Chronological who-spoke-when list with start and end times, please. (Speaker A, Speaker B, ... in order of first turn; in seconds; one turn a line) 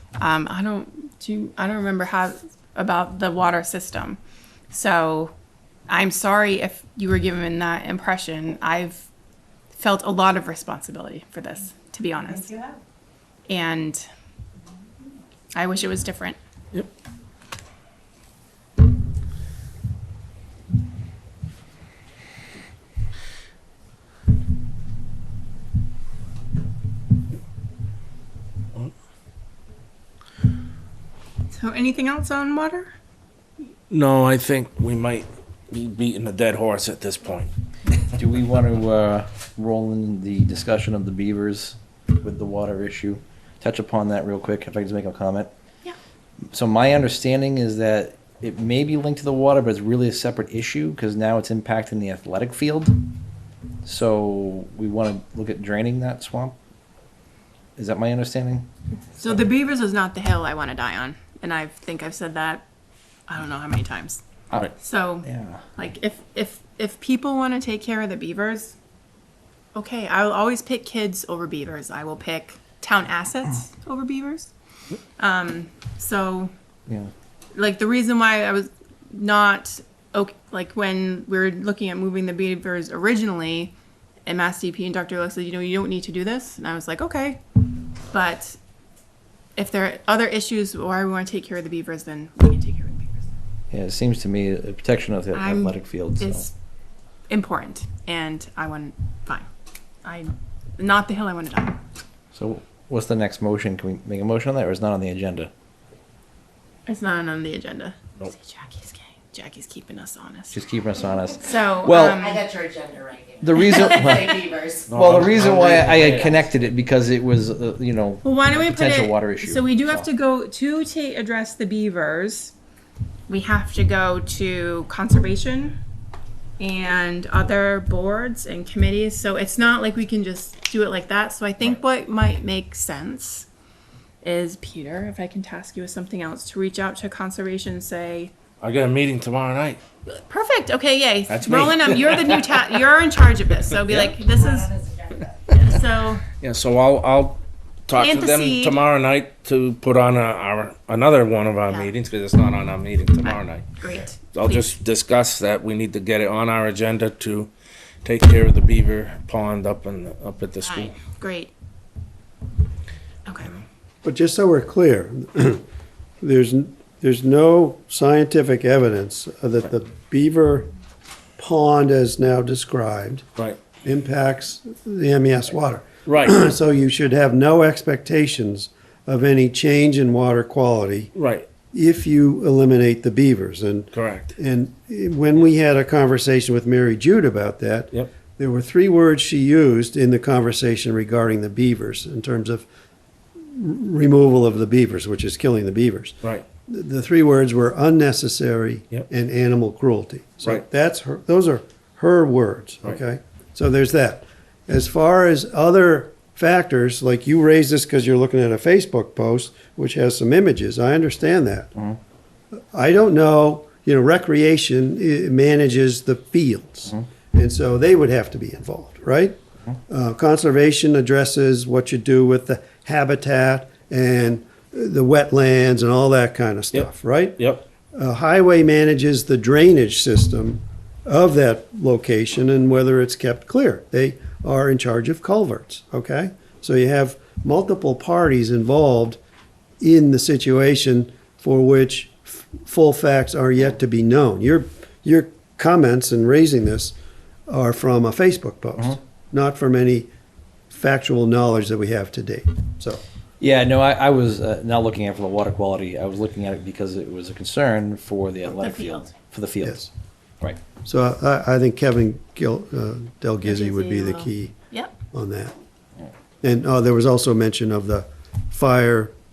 Speaker A: 0.2-4.2
Speaker A: 4.7-5.3
Speaker A: 5.9-9.1
Speaker A: 9.7-12.6
Speaker A: 13.5-14.0
Speaker A: 15.5-16.4
Speaker A: 31.5-32.9
Speaker B: 33.9-37.5
Speaker C: 38.1-45.5
Speaker C: 46.5-53.0
Speaker C: 53.9-56.6
Speaker C: 57.8-58.7
Speaker A: 59.2-62.6
Speaker A: 63.3-64.2
Speaker C: 64.5-65.6
Speaker A: 64.8-68.8
Speaker A: 69.7-74.5
Speaker A: 75.2-76.5
Speaker A: 77.5-83.7
Speaker A: 84.3-87.4
Speaker A: 88.1-88.6
Speaker A: 89.6-93.3
Speaker C: 93.7-96.5
Speaker A: 95.3-96.5
Speaker A: 97.3-99.5
Speaker A: 100.0-101.8
Speaker C: 102.3-105.5
Speaker A: 106.9-110.6
Speaker C: 110.5-112.2
Speaker A: 111.4-112.5
Speaker D: 112.2-114.9
Speaker C: 113.4-120.1
Speaker A: 113.6-114.1
Speaker B: 114.9-116.3
Speaker D: 116.0-116.4
Speaker A: 118.2-122.5
Speaker A: 123.3-125.8
Speaker A: 126.6-133.5
Speaker A: 134.2-138.3
Speaker B: 138.6-139.8
Speaker A: 140.1-144.8
Speaker B: 141.3-142.7
Speaker B: 143.7-144.2
Speaker A: 145.5-146.2
Speaker B: 146.4-153.7
Speaker A: 147.9-148.8
Speaker A: 153.2-154.7
Speaker B: 154.3-157.5
Speaker B: 158.0-161.0
Speaker A: 160.6-161.5
Speaker A: 163.3-163.6
Speaker E: 164.0-165.6
Speaker E: 166.2-170.7
Speaker E: 171.4-173.2
Speaker E: 173.8-181.1
Speaker B: 176.1-176.4
Speaker B: 181.1-181.5
Speaker E: 181.7-192.7
Speaker B: 183.9-184.3
Speaker E: 193.4-196.2
Speaker E: 196.7-211.8
Speaker E: 212.6-227.4
Speaker B: 226.7-227.6
Speaker E: 227.9-239.2
Speaker E: 239.8-247.0
Speaker E: 247.5-250.1
Speaker E: 250.7-253.0
Speaker C: 253.4-260.6
Speaker A: 258.5-259.1
Speaker E: 260.8-264.6
Speaker A: 263.4-264.9
Speaker E: 265.1-265.6
Speaker E: 266.4-269.1